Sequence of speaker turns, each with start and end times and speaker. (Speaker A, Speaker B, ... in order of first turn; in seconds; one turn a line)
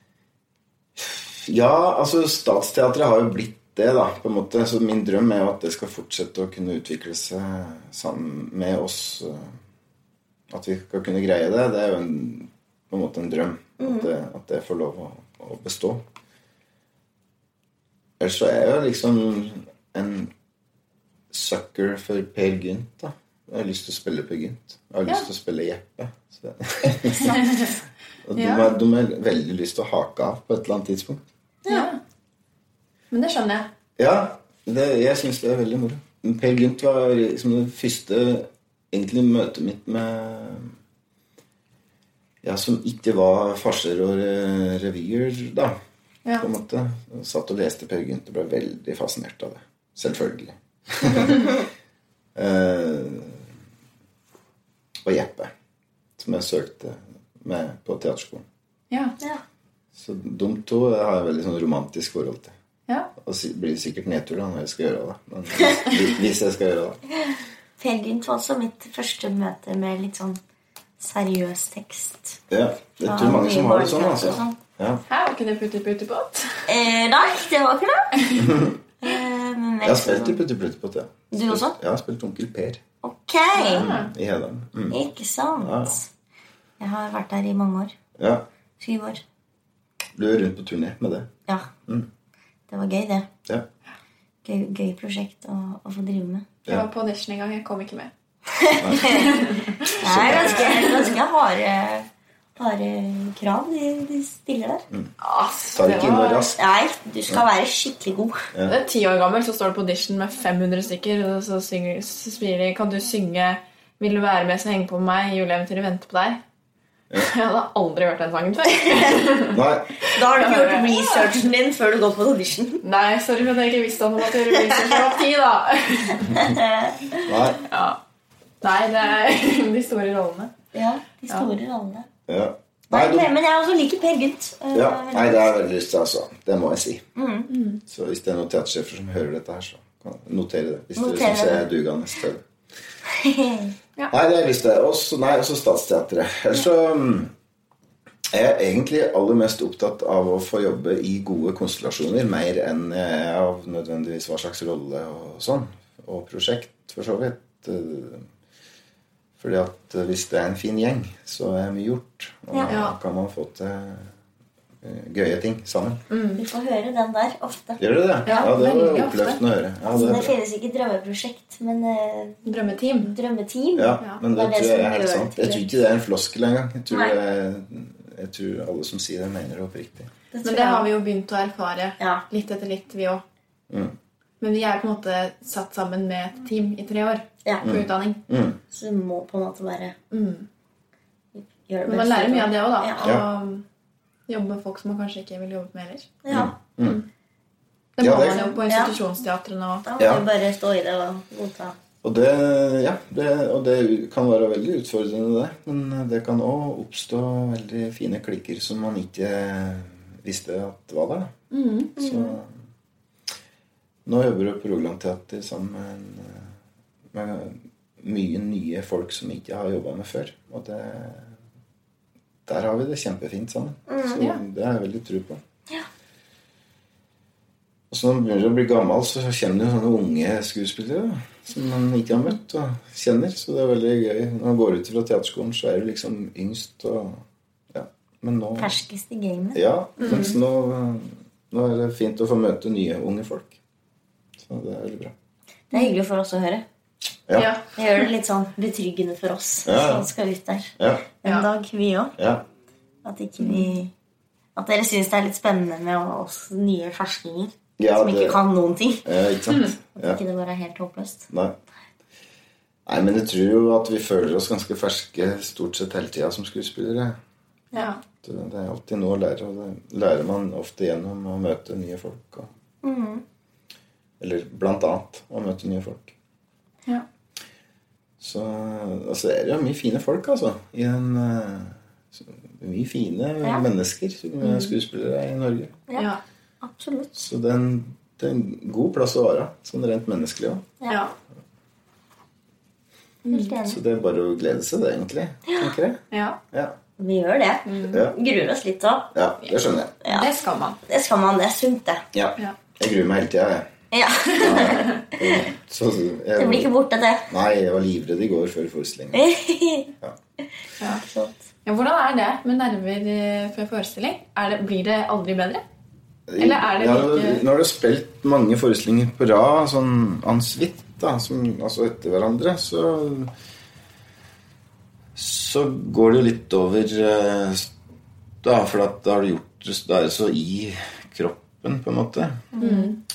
Speaker A: 1.0-9.6
Speaker A: 10.5-16.0
Speaker B: 13.8-14.1
Speaker A: 18.2-20.3
Speaker A: 21.3-27.7
Speaker C: 27.3-27.7
Speaker A: 28.2-31.2
Speaker C: 28.4-28.7
Speaker B: 31.6-31.9
Speaker C: 31.7-32.0
Speaker C: 33.1-33.7
Speaker A: 34.0-40.7
Speaker A: 42.4-45.8
Speaker A: 46.4-51.6
Speaker A: 52.4-53.5
Speaker A: 55.0-55.5
Speaker A: 56.2-58.5
Speaker C: 58.9-59.2
Speaker A: 59.9-62.5
Speaker A: 63.2-67.0
Speaker B: 67.2-70.4
Speaker B: 71.0-72.4
Speaker A: 72.5-75.0
Speaker B: 73.0-74.6
Speaker C: 75.1-76.6
Speaker B: 76.7-78.4
Speaker A: 78.4-78.8
Speaker B: 79.0-80.4
Speaker A: 79.8-82.8
Speaker B: 81.3-81.8
Speaker B: 83.0-83.9
Speaker C: 83.5-84.1
Speaker A: 83.8-85.0
Speaker B: 84.9-86.1
Speaker A: 85.6-86.0
Speaker B: 86.8-88.0
Speaker A: 88.2-88.5
Speaker B: 88.8-89.2
Speaker A: 90.2-91.3
Speaker B: 92.7-93.3
Speaker B: 94.4-96.5
Speaker C: 96.7-98.1
Speaker B: 98.5-104.8
Speaker A: 98.8-99.2
Speaker C: 99.1-101.2
Speaker A: 100.0-100.7
Speaker C: 105.2-106.5
Speaker A: 105.7-106.6
Speaker B: 106.6-108.5
Speaker C: 108.7-116.4
Speaker C: 117.2-119.6
Speaker A: 119.5-120.0
Speaker B: 120.0-122.8
Speaker C: 120.3-121.3
Speaker C: 122.8-126.4
Speaker B: 124.5-125.0
Speaker B: 126.3-127.3
Speaker A: 127.2-127.6
Speaker C: 127.7-128.0
Speaker C: 128.6-130.5
Speaker B: 130.7-132.1
Speaker A: 132.3-133.3
Speaker B: 132.9-135.5
Speaker A: 134.7-137.0
Speaker B: 137.2-137.5
Speaker C: 137.5-137.8
Speaker A: 137.9-142.4
Speaker B: 141.0-141.7
Speaker B: 143.1-143.8
Speaker A: 144.1-147.3
Speaker A: 148.3-158.3
Speaker A: 159.4-164.1
Speaker B: 162.5-162.8
Speaker C: 162.7-163.0
Speaker A: 164.8-166.0
Speaker C: 166.1-166.4
Speaker B: 166.3-168.5
Speaker A: 167.8-170.4
Speaker C: 168.3-169.4
Speaker B: 169.9-175.7
Speaker C: 172.5-173.1
Speaker A: 173.8-180.1
Speaker B: 176.9-177.2
Speaker B: 180.3-180.9
Speaker C: 180.4-183.2
Speaker B: 182.0-182.2
Speaker A: 183.7-184.0
Speaker C: 184.4-188.2
Speaker A: 187.6-188.6
Speaker B: 188.7-190.0
Speaker C: 190.1-190.5
Speaker B: 191.3-193.2
Speaker C: 191.9-193.7
Speaker A: 193.0-193.3
Speaker C: 194.3-196.2
Speaker B: 196.2-196.6
Speaker A: 196.3-197.0
Speaker C: 198.0-199.9
Speaker A: 198.0-198.5
Speaker B: 198.3-199.0
Speaker B: 199.8-201.8
Speaker A: 200.0-200.2
Speaker A: 202.0-211.3
Speaker C: 211.5-212.0
Speaker A: 212.0-212.5
Speaker B: 212.0-212.3
Speaker A: 214.1-216.5
Speaker A: 217.1-221.3
Speaker A: 222.5-225.4
Speaker B: 223.9-224.2
Speaker A: 227.9-238.8
Speaker B: 238.6-239.6
Speaker A: 239.6-243.6
Speaker C: 240.0-240.4
Speaker A: 244.4-245.1
Speaker B: 245.7-246.7
Speaker A: 247.3-247.5
Speaker C: 247.4-247.6
Speaker B: 247.8-252.1
Speaker A: 249.7-250.1
Speaker A: 250.8-251.1
Speaker A: 252.2-252.5
Speaker B: 253.0-253.9
Speaker C: 253.4-253.7
Speaker B: 254.6-259.1
Speaker A: 257.8-258.4
Speaker A: 259.1-260.2
Speaker B: 260.0-261.3
Speaker A: 261.3-261.6
Speaker A: 262.9-267.2
Speaker C: 267.7-268.0
Speaker A: 268.2-272.5
Speaker B: 272.8-273.2
Speaker A: 274.2-276.1
Speaker A: 278.2-285.8
Speaker C: 284.4-284.8
Speaker B: 285.9-287.2
Speaker C: 285.9-286.2
Speaker A: 287.2-290.7
Speaker C: 290.9-291.1
Speaker C: 293.2-293.5
Speaker B: 293.3-293.8
Speaker A: 293.6-296.8
Speaker C: 296.1-296.4
Speaker B: 297.0-299.1
Speaker C: 297.7-298.0
Speaker A: 299.1-299.9
Speaker B: 300.0-300.3
Speaker C: 300.0-300.8
Speaker B: 300.9-302.0
Speaker A: 302.1-303.7
Speaker B: 303.9-305.5
Speaker A: 304.4-306.7
Speaker C: 304.5-305.0
Speaker B: 306.4-307.3
Speaker A: 307.3-309.2
Speaker B: 309.1-309.9
Speaker B: 310.8-311.4
Speaker C: 311.6-315.6
Speaker A: 316.3-323.3
Speaker C: 316.4-317.4
Speaker A: 325.1-327.7
Speaker A: 328.4-332.5
Speaker B: 332.5-332.9
Speaker C: 332.6-333.0